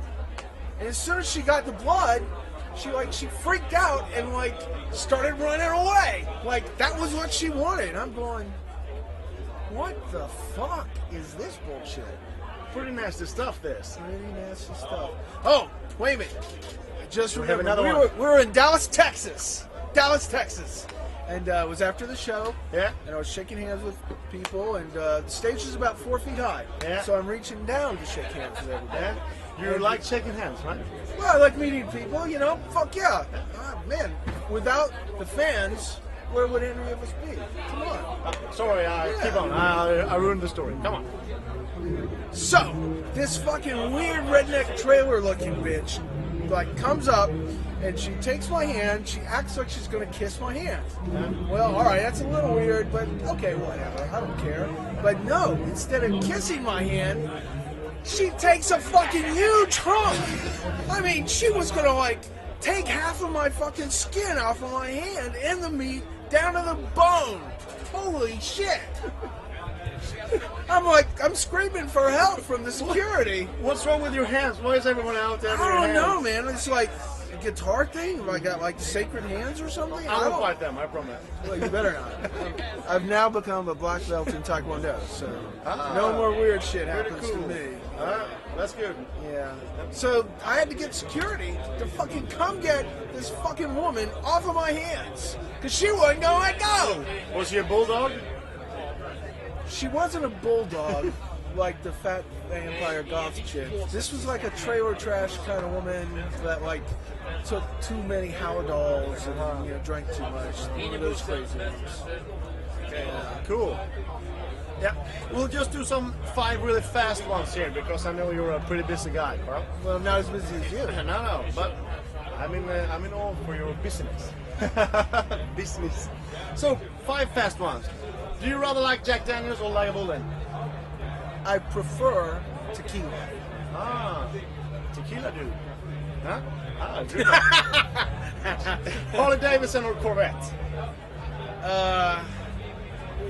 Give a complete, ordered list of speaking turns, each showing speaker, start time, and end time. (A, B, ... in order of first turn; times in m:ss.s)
0:00.8-0:08.6 A
0:09.7-0:12.2 A
0:12.7-0:14.0 B
0:14.0-0:16.4 A
0:17.0-0:30.0 A
0:17.3-0:18.2 B
0:22.7-0:23.0 B
0:26.8-0:27.1 B
0:28.9-0:30.9 B
0:31.1-0:38.1 A
0:38.2-0:41.1 B
0:39.0-0:39.6 A
0:42.3-0:57.3 A
0:51.1-0:51.4 B
0:58.0-1:09.0 A
1:10.7-1:13.5 A
1:13.5-1:16.3 B
1:15.4-1:20.6 A
1:19.9-1:21.8 B
1:21.4-1:27.9 A
1:25.6-1:29.1 B
1:29.2-1:37.1 A
1:37.3-1:38.3 B
1:39.6-1:46.9 A
1:47.4-1:52.0 A
1:49.2-1:49.7 B
1:52.9-1:53.4 A
1:53.4-1:53.8 B
1:54.8-1:59.7 B
1:59.8-2:01.0 A
2:00.8-2:01.8 B
2:02.3-2:10.3 B
2:11.4-2:13.4 A
2:13.7-2:14.4 B
2:14.9-2:15.6 B
2:16.2-2:17.8 B
2:17.2-2:17.8 A
2:18.6-2:20.5 B
2:21.6-2:22.3 A